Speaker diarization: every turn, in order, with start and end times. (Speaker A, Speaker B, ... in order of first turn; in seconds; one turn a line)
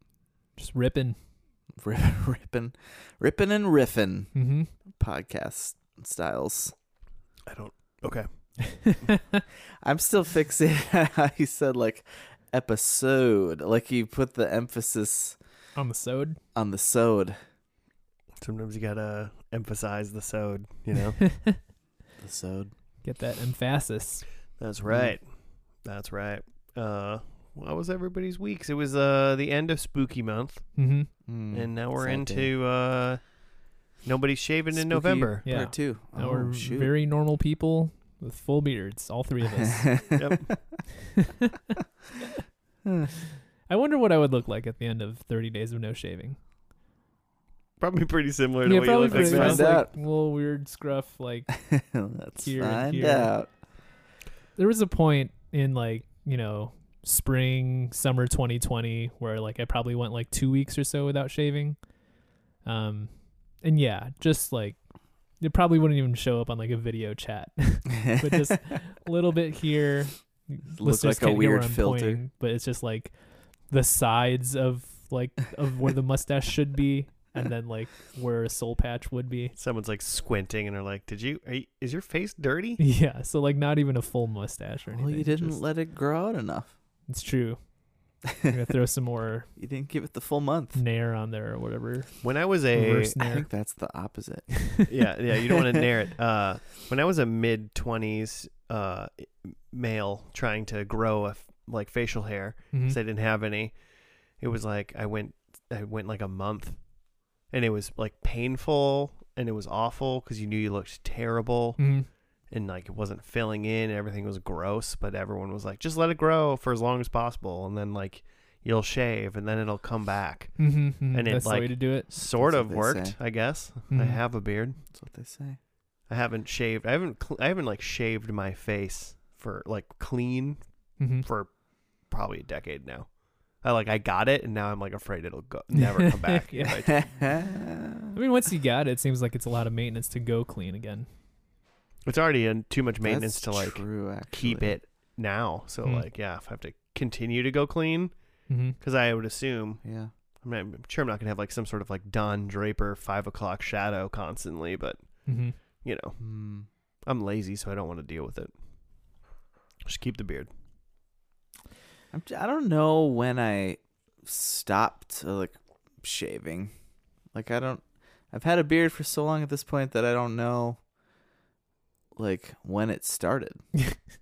Speaker A: 0.6-1.2
Speaker B: 1.7-6.7
Speaker A: 4.3-4.7
Speaker C: 7.5-9.1
Speaker B: 9.8-15.4
Speaker A: 15.8-16.4
Speaker B: 16.5-17.4
Speaker C: 18.4-21.6
Speaker B: 22.2-22.7
Speaker A: 23.0-24.3
Speaker C: 24.6-36.4
Speaker B: 24.9-25.2
Speaker A: 30.8-31.1
Speaker B: 31.2-32.5
Speaker B: 34.7-37.0
Speaker A: 35.5-40.1
Speaker B: 39.6-40.2
Speaker C: 40.2-40.9
Speaker B: 42.8-43.1
Speaker A: 43.6-46.4
Speaker C: 47.8-49.8
Speaker A: 48.6-51.7
Speaker B: 49.1-49.9
Speaker B: 51.6-53.5
Speaker A: 52.4-53.5
Speaker A: 54.6-79.6
Speaker B: 68.0-68.6
Speaker B: 70.7-72.2
Speaker C: 79.6-82.8
Speaker A: 82.8-85.6
Speaker B: 84.9-86.7
Speaker A: 87.1-89.5
Speaker B: 89.6-90.8
Speaker A: 90.7-93.5
Speaker C: 92.2-93.1
Speaker B: 93.1-95.0
Speaker C: 94.9-124.8
Speaker A: 102.7-103.0
Speaker A: 111.8-112.1
Speaker A: 120.6-122.1
Speaker B: 122.1-123.2
Speaker A: 123.9-124.2
Speaker B: 124.8-125.6
Speaker C: 126.1-137.5
Speaker A: 131.0-131.3
Speaker A: 135.8-136.8
Speaker B: 136.8-138.1
Speaker A: 138.1-141.1
Speaker C: 142.1-149.8
Speaker B: 143.0-144.8
Speaker A: 148.5-148.8
Speaker B: 149.8-150.1
Speaker C: 150.4-156.2
Speaker A: 155.3-155.6
Speaker B: 156.2-156.7
Speaker C: 157.1-158.6
Speaker C: 159.8-160.5
Speaker B: 162.1-166.7
Speaker B: 167.3-170.8
Speaker B: 172.2-173.7